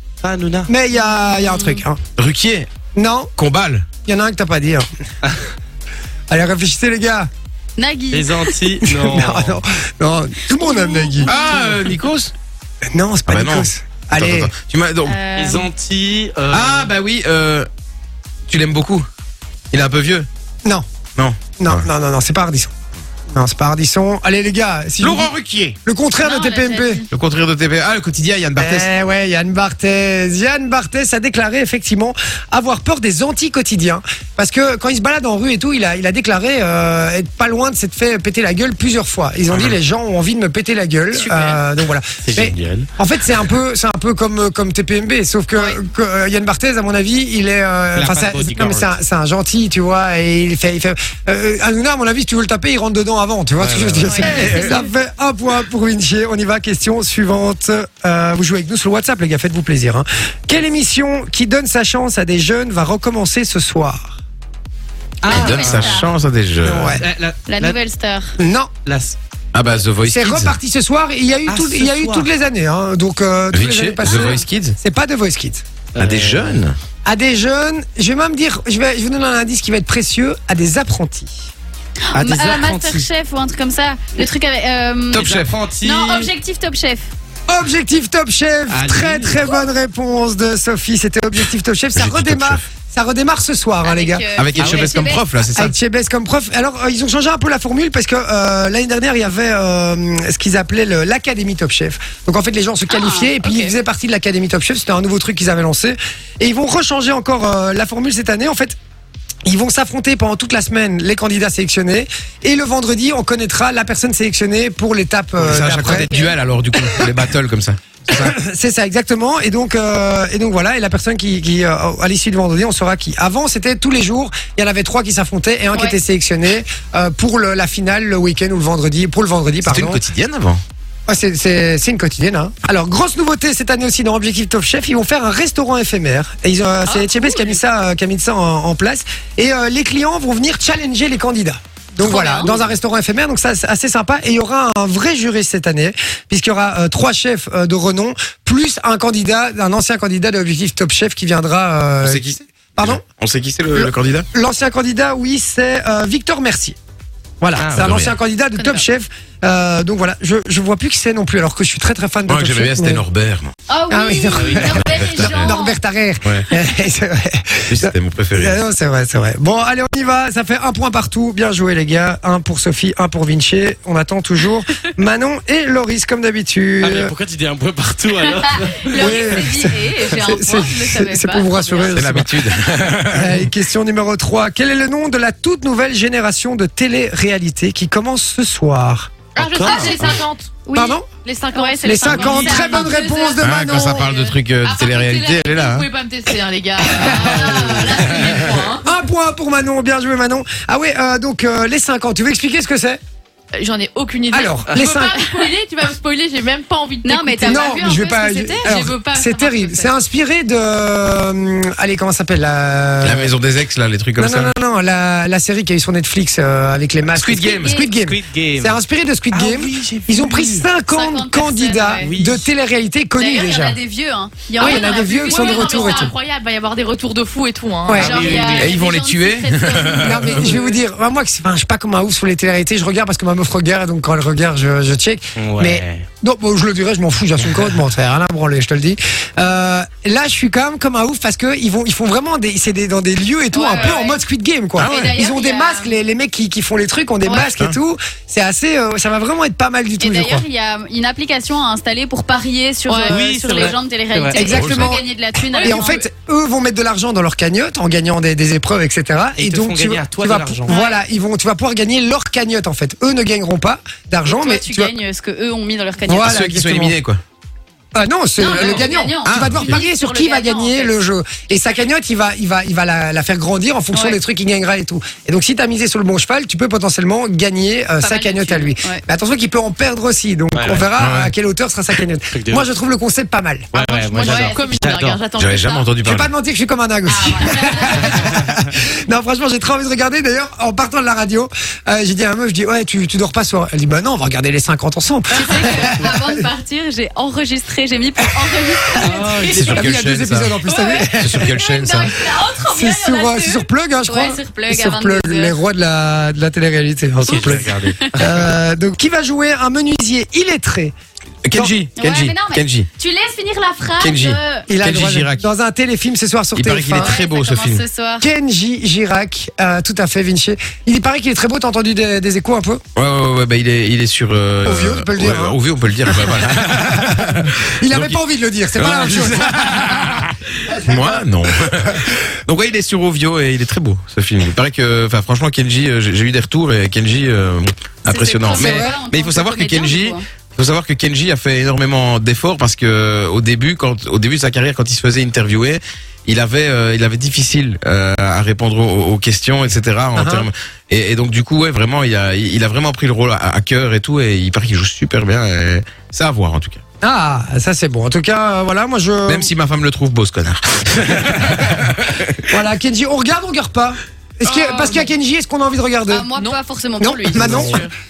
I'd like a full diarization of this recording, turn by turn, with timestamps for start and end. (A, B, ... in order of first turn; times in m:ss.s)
0:00.2-0:00.7 A
0:00.7-0:02.0 B
0:01.2-0:01.8 C
0:02.2-0:02.7 D
0:02.9-0:03.3 B
0:03.4-0:03.9 D
0:04.0-0:04.9 B
0:06.3-0:07.3 B
0:07.8-0:08.5 C
0:08.1-0:09.6 A
0:08.9-0:11.3 B
0:10.6-0:11.5 C
0:11.2-0:12.3 D
0:11.5-0:11.9 A
0:12.9-0:14.5 B
0:13.3-0:15.2 D
0:15.0-0:15.7 C
0:15.3-0:16.9 A
0:16.5-0:17.7 D
0:18.5-0:19.0 D
0:19.7-0:20.3 D
0:21.2-0:21.8 D
0:21.6-0:22.7 B
0:23.3-0:27.0 B
0:25.0-0:25.8 D
0:26.2-0:27.0 C
0:27.1-0:28.9 D
0:28.6-1:04.1 B
0:39.5-0:39.8 D
0:41.1-0:41.6 A
0:42.2-0:42.9 A
0:47.9-0:49.0 A
0:53.6-0:54.6 A
0:54.1-0:54.9 C
1:05.2-1:06.1 A
1:05.2-1:06.1 C
1:05.2-1:07.0 D
1:06.6-1:07.8 A
1:06.6-1:07.0 B
1:07.5-1:08.3 C
1:08.4-1:08.7 B
1:08.8-1:09.2 A
1:09.5-1:10.6 D
1:10.0-1:15.6 B
1:11.5-1:12.3 A
1:13.5-1:14.8 D
1:14.0-1:14.4 C
1:15.9-1:16.6 A
1:16.0-1:16.8 D
1:17.0-1:21.5 B
1:22.1-1:25.3 C
1:22.1-1:22.7 D
1:22.4-1:23.0 A
1:25.1-1:25.5 D
1:25.1-1:26.3 A
1:25.8-1:27.1 C
1:27.5-1:34.2 B
1:28.7-1:29.5 A
1:31.9-1:32.6 D
1:33.8-1:35.2 C
1:34.4-1:35.7 D
1:34.6-1:34.9 A
1:35.5-1:48.8 B
1:42.9-1:43.7 C
1:49.4-1:56.2 B
1:55.4-1:58.3 D
1:56.8-1:57.1 B
1:58.1-2:10.0 B
2:05.7-2:06.0 C
2:09.6-2:10.6 D
2:11.1-2:33.0 B
2:16.9-2:17.5 E
2:22.0-2:22.6 C
2:32.0-2:34.3 D
2:33.7-2:36.8 B
2:37.4-2:43.0 B
2:37.6-2:38.0 A
2:37.7-2:38.1 D
2:38.6-2:38.8 C
2:42.3-2:43.5 D
2:43.7-2:45.8 C
2:43.9-2:57.1 B
2:44.3-2:44.7 A
2:44.6-2:45.6 D
2:47.7-2:48.6 D
2:56.8-2:59.4 A
2:58.5-3:02.0 C
2:58.9-3:02.4 B
3:01.9-3:03.5 D
3:03.1-3:09.1 B
3:09.4-3:13.0 E
3:09.4-3:10.0 A
3:09.5-3:10.2 D
3:10.7-3:11.1 B
3:11.5-3:13.4 C
3:11.8-3:14.1 B
3:13.4-3:15.9 D
3:13.9-3:14.4 C
3:14.6-3:18.9 E
3:16.8-3:18.1 B
3:17.0-3:18.4 C
3:17.8-3:18.5 D
3:18.8-3:23.0 B
3:23.5-3:29.9 E
3:24.3-3:25.2 B
3:27.0-3:28.2 C
3:27.4-3:33.4 B
3:33.0-3:34.5 D
3:34.2-3:43.8 B
3:37.1-3:37.8 D
3:37.6-3:37.9 C
3:37.7-3:38.8 A
3:39.3-3:40.6 A
3:40.8-3:42.1 C
3:42.0-3:42.5 A
3:43.2-3:46.1 C
3:44.6-3:48.7 E
3:44.6-3:46.1 B
3:47.9-3:48.3 B
3:47.9-3:50.6 C
3:47.9-3:48.8 A
3:48.5-3:50.5 D
3:49.9-4:10.4 B
3:55.4-3:56.0 A
4:03.5-4:04.2 C
4:04.8-4:05.9 C
4:04.8-4:05.2 D
4:07.4-4:07.8 D
4:10.0-4:16.0 C
4:12.9-4:13.3 E
4:13.1-4:14.7 A
4:14.3-4:15.1 B
4:14.6-4:14.9 D
4:15.5-4:16.0 E
4:15.6-4:24.9 B
4:19.4-4:20.8 A
4:20.7-4:21.0 C
4:24.2-4:26.4 C
4:26.0-4:27.0 B
4:26.2-4:27.2 D
4:27.9-4:43.7 B
4:28.4-4:31.0 C
4:29.2-4:29.8 D
4:33.9-4:34.2 C
4:38.0-4:39.0 C
4:40.5-4:40.9 A
4:41.0-4:41.3 D
4:42.3-4:42.7 A
4:43.7-4:45.2 A
4:43.8-4:44.7 C
4:44.0-4:46.0 E
4:45.3-4:46.3 D
4:46.0-4:56.4 B
4:47.0-4:48.2 C
4:48.0-4:48.5 A
4:55.3-4:59.8 C
4:59.0-4:59.8 A
4:59.4-5:00.5 D
4:59.7-5:01.6 B
5:00.6-5:05.6 C
5:01.2-5:02.1 D
5:02.6-5:10.9 B
5:07.2-5:08.4 A
5:07.3-5:08.2 C
5:11.4-5:12.9 D
5:12.0-5:14.7 C
5:14.0-5:15.4 D
5:14.7-5:17.2 B
5:16.6-5:17.8 D
5:17.0-5:18.3 C
5:18.2-5:22.8 B
5:23.0-5:28.2 D
5:24.6-5:29.8 B
5:28.8-5:56.8 D
5:30.7-5:31.2 B
5:38.0-5:40.2 C
5:38.5-5:39.0 B
5:50.1-5:50.5 B
5:57.0-5:59.5 B
5:59.3-6:02.5 D
6:02.5-6:06.3 B
6:04.5-6:05.0 E
6:06.1-6:07.9 C
6:07.0-6:07.8 B
6:07.3-6:07.9 E